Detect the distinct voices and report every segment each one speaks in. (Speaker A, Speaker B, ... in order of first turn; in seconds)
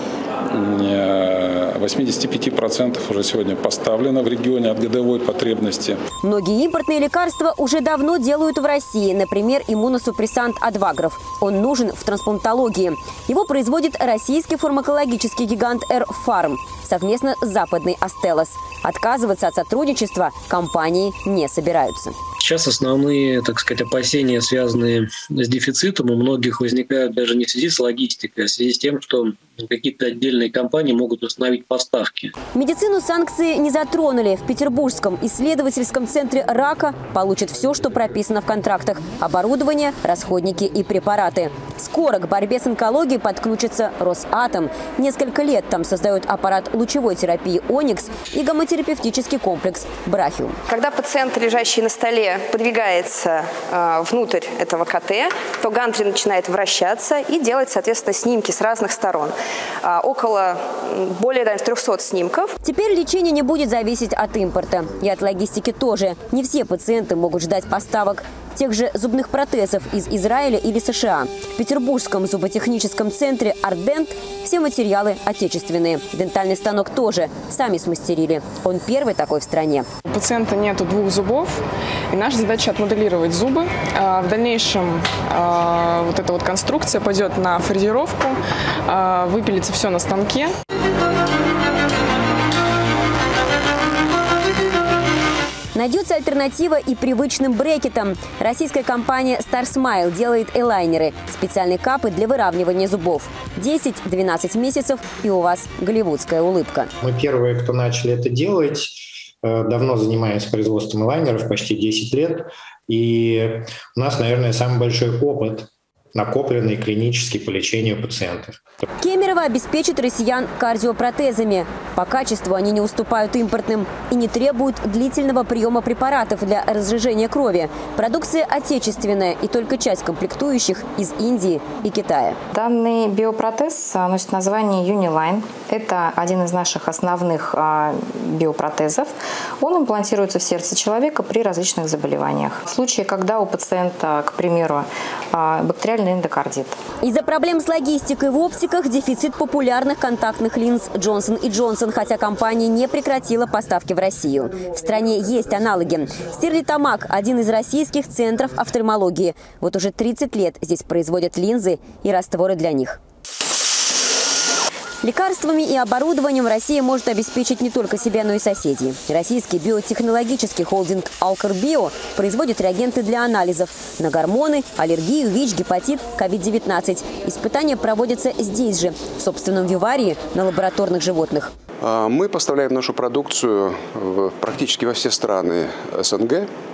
Speaker A: 0.5-6.0
Speaker B: 6.2-22.2, 32.5-50.6, 62.6-79.9, 95.7-106.9, 119.0-132.4, 147.0-163.0, 165.0-181.5
Speaker C: 22.4-32.3
Speaker D: 50.7-62.5
Speaker E: 80.1-90.5
Speaker F: 107.0-118.6
Speaker G: 132.5-146.8
Speaker H: 181.8-186.5